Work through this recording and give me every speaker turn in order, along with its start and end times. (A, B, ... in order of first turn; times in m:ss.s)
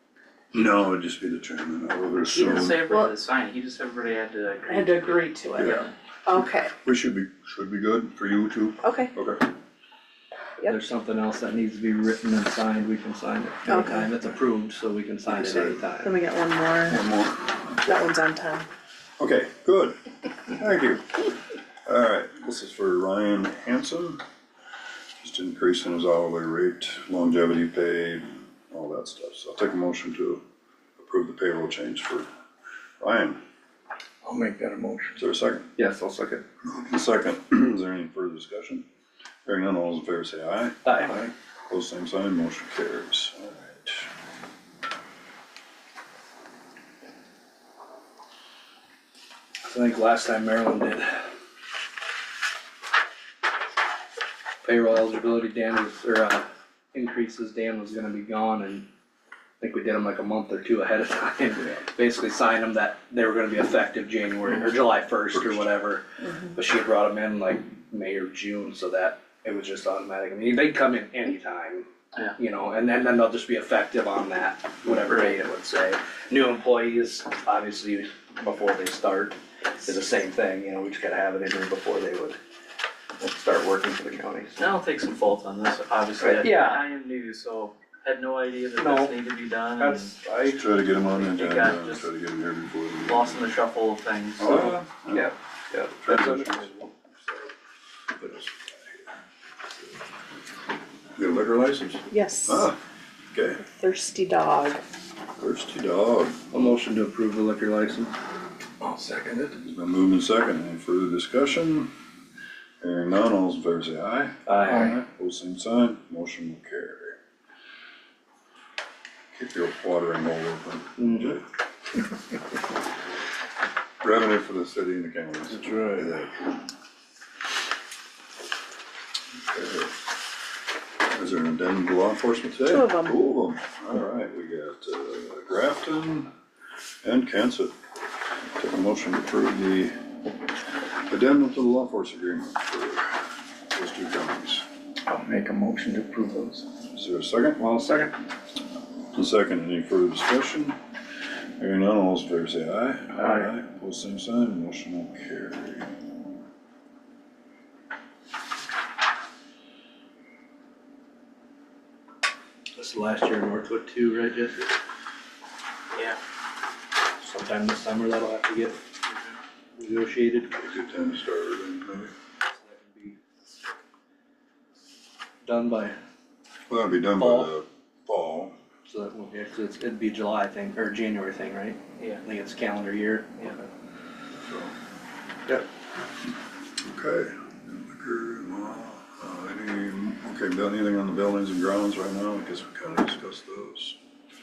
0:00.5-0:02.9 A
0:02.2-0:05.4 B
0:02.8-0:03.2 C
0:04.7-0:06.7 C
0:05.5-0:05.9 A
0:06.8-0:09.5 A
0:08.8-0:09.1 C
0:10.7-0:16.1 D
0:13.7-0:14.1 C
0:15.3-0:15.8 A
0:16.0-0:17.0 C
0:16.9-0:17.9 A
0:17.8-0:18.7 C
0:19.2-0:20.0 A
0:20.5-0:21.3 A
0:21.9-0:24.2 A
0:25.2-0:30.4 A
0:31.0-0:32.3 A
0:33.0-0:33.4 A
0:34.2-0:35.2 E
0:35.2-0:35.7 A
0:35.8-0:36.4 D
0:36.6-0:38.8 A
0:39.5-0:44.1 A
0:40.8-0:41.2 D
0:49.6-0:51.3 D
0:54.6-0:58.9 D
0:59.6-1:22.4 D
1:05.3-1:05.7 A
1:23.2-1:24.6 D
1:24.6-1:30.2 B
1:26.2-1:26.8 D
1:28.8-1:29.1 D
1:29.8-1:30.6 D
1:30.4-1:33.6 A
1:31.1-1:32.1 B
1:33.0-1:34.5 B
1:34.4-1:35.3 A
1:34.4-1:36.9 D
1:36.0-1:36.7 A
1:38.2-1:38.7 A
1:41.2-1:42.8 A
1:42.1-1:42.7 C
1:43.3-1:43.6 A
1:43.6-1:44.8 C
1:45.4-1:46.4 A
1:46.5-1:48.1 D
1:48.8-1:49.6 E
1:49.6-1:51.9 A
1:52.8-1:57.2 A
1:54.5-1:55.0 D
1:59.3-2:01.4 A
2:01.0-2:01.4 D
2:04.0-2:06.6 A
2:05.5-2:06.1 D
2:09.5-2:09.9 A
2:11.1-2:16.3 A
2:12.7-2:13.2 C
2:17.0-2:17.7 A
2:18.6-2:19.9 A
2:21.1-2:24.6 A
2:25.1-2:26.7 E
2:27.0-2:28.0 A
2:27.6-2:28.1 D
2:29.1-2:30.8 A
2:31.6-2:35.9 A
2:42.8-2:44.7 D
2:47.2-2:48.9 D
2:49.8-2:50.6 D
2:50.6-2:52.1 A
2:52.5-2:53.2 D
2:55.4-2:56.0 D
2:56.7-2:58.5 A
2:57.2-2:57.5 D
2:58.9-3:03.6 D
3:04.4-3:04.7 A
3:06.8-3:14.0 A